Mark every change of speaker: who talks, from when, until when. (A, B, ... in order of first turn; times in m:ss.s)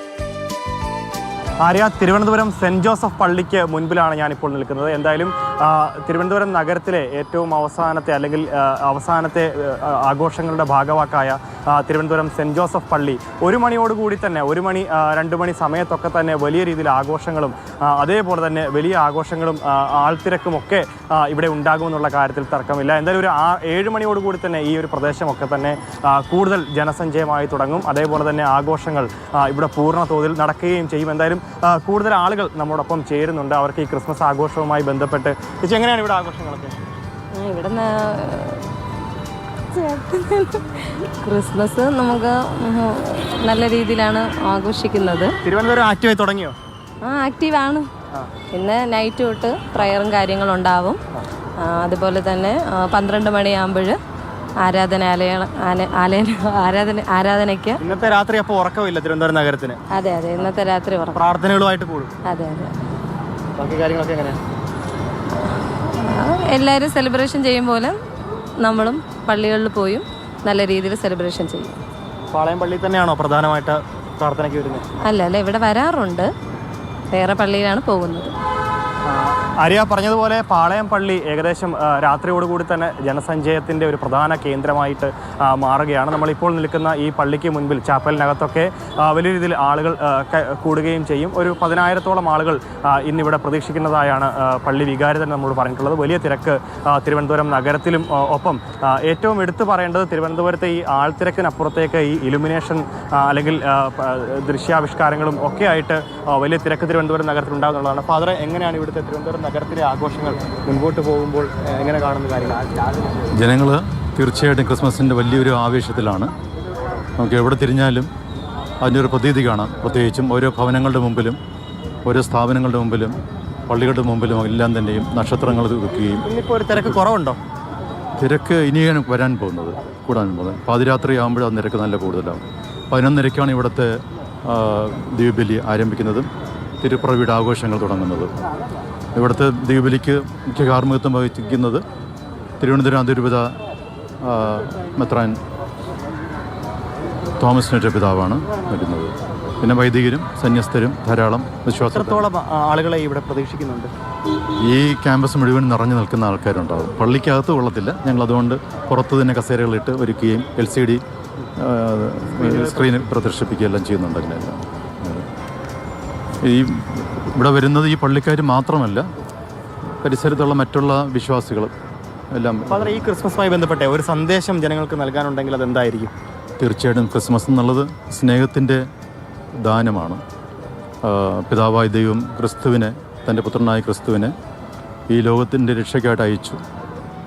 0:01.6-0:36.8 A
0:37.4-0:38.7 B
0:39.7-0:45.4 B
0:45.4-0:46.6 A
0:47.0-0:47.9 B
0:48.5-0:51.0 B
0:51.6-0:54.0 B
0:54.6-0:57.8 B
0:57.8-0:59.8 A
0:59.9-1:01.2 B
1:01.1-1:02.1 A
1:02.2-1:02.8 B
1:03.6-1:04.4 A
1:06.0-1:08.0 B
1:08.6-1:11.8 B
1:12.3-1:14.8 A
1:15.0-1:16.3 B
1:17.1-1:18.3 B
1:19.0-1:52.6 A
1:53.4-1:56.3 C
1:57.2-1:58.1 C
1:58.8-2:01.4 C
2:02.1-2:03.2 C
2:03.7-2:07.0 C
2:06.2-2:07.4 A
2:08.2-2:13.9 C
2:14.5-2:16.3 C
2:16.8-2:18.3 C
2:19.2-2:21.8 C
2:22.6-2:23.5 C
2:24.2-2:25.4 C
2:27.4-2:32.2 C
2:31.9-2:33.9 A
2:34.7-2:41.0 C
2:41.6-2:45.3 C
2:42.4-2:43.0 A
2:46.4-2:49.1 C
2:50.0-2:51.7 C
2:52.3-2:53.1 C
2:52.7-2:56.1 A
2:56.6-2:58.8 C
2:59.6-3:00.2 C
3:01.0-3:04.3 C
3:05.1-3:06.6 C